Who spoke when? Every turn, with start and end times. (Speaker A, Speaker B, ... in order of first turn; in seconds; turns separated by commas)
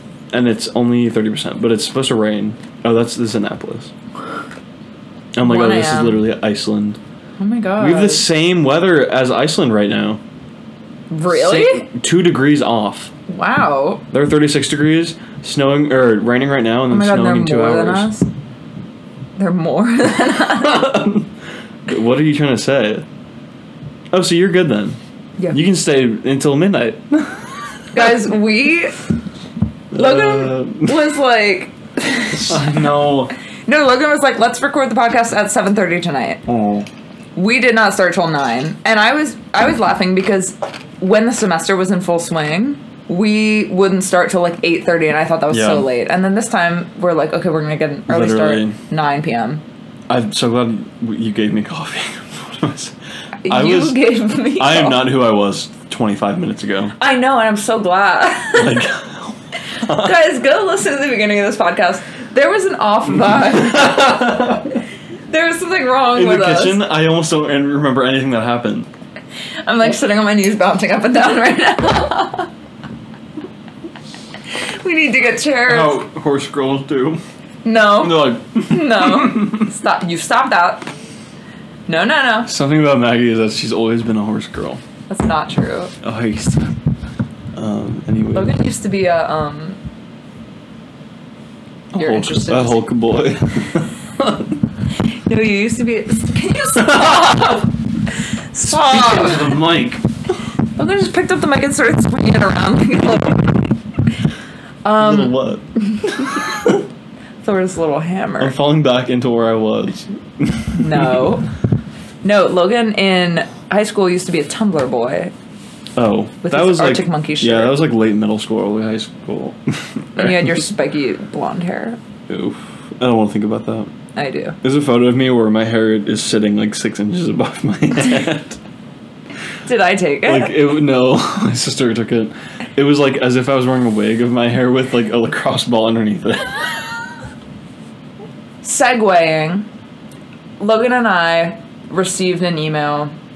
Speaker A: 0.3-3.9, Speaker A: 5.3-7.0, Speaker B: 5.4-6.2, Speaker B: 7.4-8.3, Speaker A: 7.8-10.2, Speaker B: 11.1-11.9, Speaker A: 11.3-13.1, Speaker B: 13.3-14.0, Speaker A: 14.1-18.1, Speaker B: 16.9-18.3, Speaker B: 19.4-21.0, Speaker A: 20.5-21.3, Speaker A: 21.9-23.1, Speaker A: 24.1-25.0, Speaker A: 25.5-28.2, Speaker B: 27.9-29.0, Speaker A: 29.9-31.0, Speaker B: 29.9-32.8, Speaker A: 32.3-33.3, Speaker B: 33.6-36.4, Speaker A: 36.5-36.9, Speaker B: 37.3-49.6, Speaker A: 45.5-45.9, Speaker A: 48.1-48.8, Speaker A: 50.1-53.0, Speaker B: 53.4-55.1, Speaker A: 53.5-56.9, Speaker B: 57.0-58.8, Speaker A: 58.5-60.2, Speaker B: 59.9-64.5, Speaker A: 63.2-64.8, Speaker B: 65.3-66.8, Speaker A: 66.1-68.9, Speaker B: 69.6-72.5, Speaker B: 74.5-76.0, Speaker A: 75.7-77.2, Speaker B: 77.6-80.9, Speaker A: 78.0-79.7, Speaker B: 81.9-82.5, Speaker A: 82.5-84.8, Speaker B: 85.1-85.9, Speaker A: 86.0-86.7, Speaker A: 87.5-88.5, Speaker B: 88.3-89.8, Speaker A: 91.9-94.6, Speaker B: 91.9-92.9, Speaker B: 95.0-97.7, Speaker A: 96.7-97.6, Speaker B: 98.5-99.6, Speaker A: 98.6-100.0, Speaker B: 100.8-103.7, Speaker B: 104.8-106.8, Speaker A: 105.0-106.8, Speaker B: 107.4-108.5, Speaker A: 108.4-111.4, Speaker B: 110.7-111.5, Speaker B: 112.2-115.3, Speaker A: 116.0-120.7, Speaker B: 116.4-117.8, Speaker B: 120.2-122.0, Speaker A: 122.3-123.9, Speaker B: 124.2-124.6, Speaker A: 124.6-128.6, Speaker B: 129.6-130.6, Speaker A: 130.2-136.7, Speaker B: 138.6-139.7, Speaker B: 140.6-143.1